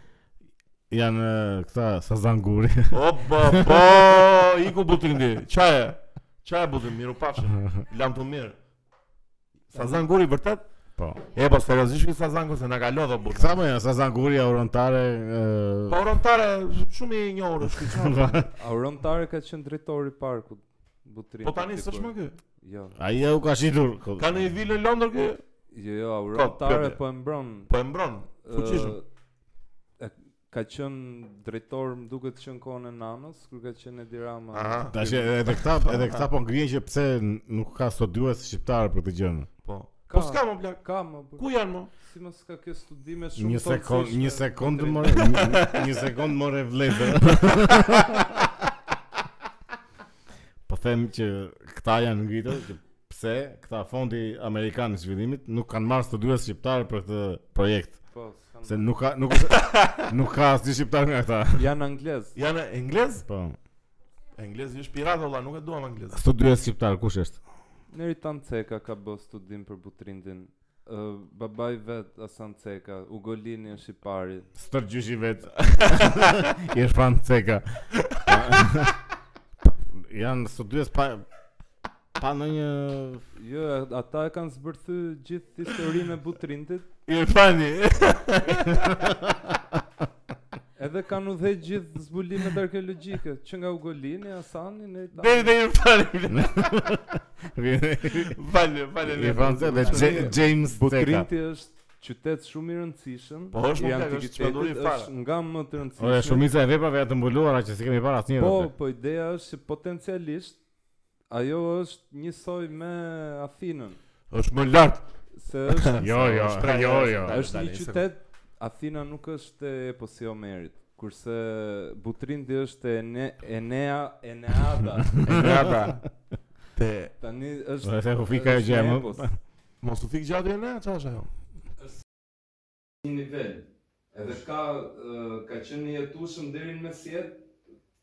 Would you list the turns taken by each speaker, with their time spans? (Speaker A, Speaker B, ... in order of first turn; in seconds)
Speaker A: 0.9-4.4, 11.0-11.2, 13.3-16.0, 17.7-18.5, 22.9-24.4, 34.9-39.5, 43.4-48.6, 50.7-58.0, 58.6-61.6, 63.2-63.6, 66.1-67.4, 74.6-79.0, 79.6-81.2, 82.2-83.2, 88.7-89.5, 96.3-98.4, 99.0-101.3, 106.0-108.7, 116.0-117.4, 125.2-125.9, 127.8-129.4
Speaker B: 2.9-8.6, 9.7-10.6, 11.3-13.6, 15.9-18.5, 21.4-22.4, 24.2-25.4, 26.3-27.0, 27.7-29.0, 34.5-34.9, 35.6-36.2, 39.6-40.8, 41.3-41.9, 45.2-45.9, 47.7-48.0, 59.5-60.1, 62.3-63.2, 64.3-66.2, 75.6-76.5, 78.0-78.7, 87.1-89.1, 95.1-96.9, 98.3-100.4, 103.5-105.1, 114.3-115.0, 115.7-118.0, 125.2-126.0, 126.8-127.1, 129.8-131.3
Speaker C: 9.7-10.0, 18.6-23.0, 25.7-27.7, 28.4-29.0, 30.0-35.4, 40.1-41.5, 42.0-45.4, 58.1-58.9, 61.5-62.4, 67.9-74.5, 83.3-86.9, 90.8-95.5, 99.9-106.5, 108.4-110.6, 111.3-114.0, 115.3-116.2, 117.3-125.2, 127.2-129.3, 133.0-137.4